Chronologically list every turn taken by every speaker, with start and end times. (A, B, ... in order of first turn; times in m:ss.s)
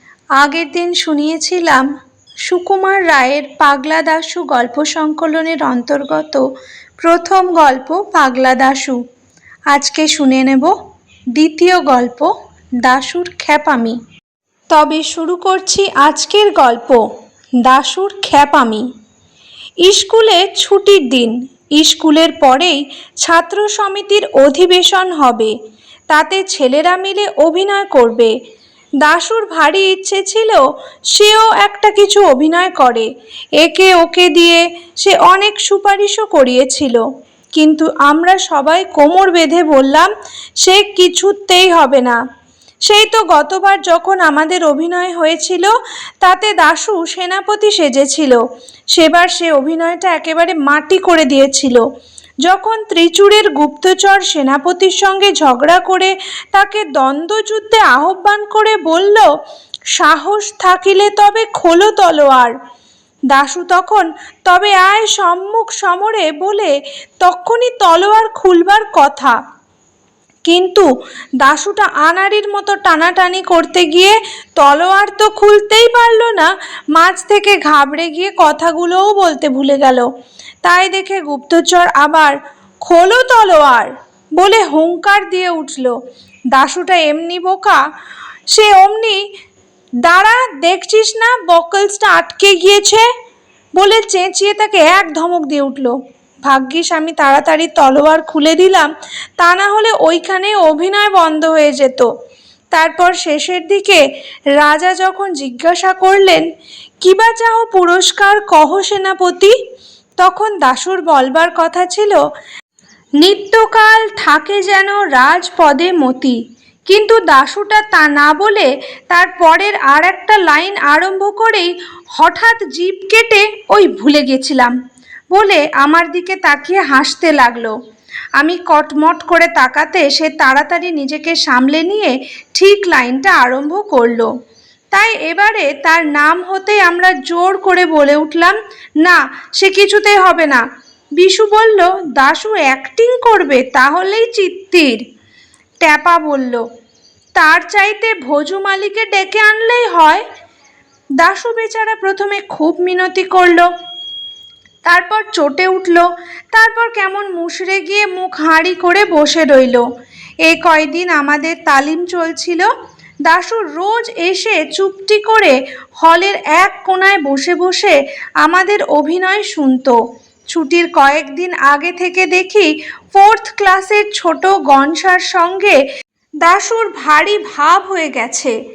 0:00.4-0:01.9 A
0:02.4-0:06.4 A
0:07.0-0:09.0 A
0:09.7-0:10.7 A
0:11.3-0:12.3 A
0:12.8-0:14.0 A
0:14.7-0:17.0 A
0:17.6-0:18.8 A
0:19.8-0:25.5 A
0:26.1-0:28.3 A
0:29.0-0:37.0 A
0:37.6-0:40.1 A
0:40.6-0:42.2 A
0:42.9-0:48.4 A
0:48.9-0:51.8 A
0:52.4-0:59.3 A
0:59.9-1:02.5 A
1:03.3-1:09.4 A
1:10.4-1:10.9 A
1:11.4-1:20.1 A
1:20.6-1:26.0 A
1:26.5-1:27.8 A
1:28.5-1:29.2 A
1:30.0-1:33.1 A
1:33.8-1:42.1 A
1:42.7-1:44.0 A
1:44.6-1:46.4 A
1:47.0-1:49.5 A
1:50.2-1:52.2 A
1:53.2-2:04.7 A
2:05.3-2:07.7 A
2:08.4-2:14.3 A
2:14.9-2:20.6 A
2:21.2-2:25.0 A
2:25.8-2:26.6 A
2:27.4-2:30.2 A
2:31.2-2:33.7 A
2:34.8-2:39.8 A
2:40.4-2:42.7 A
2:43.2-2:50.0 A
2:50.5-2:55.8 A
2:56.4-2:58.6 A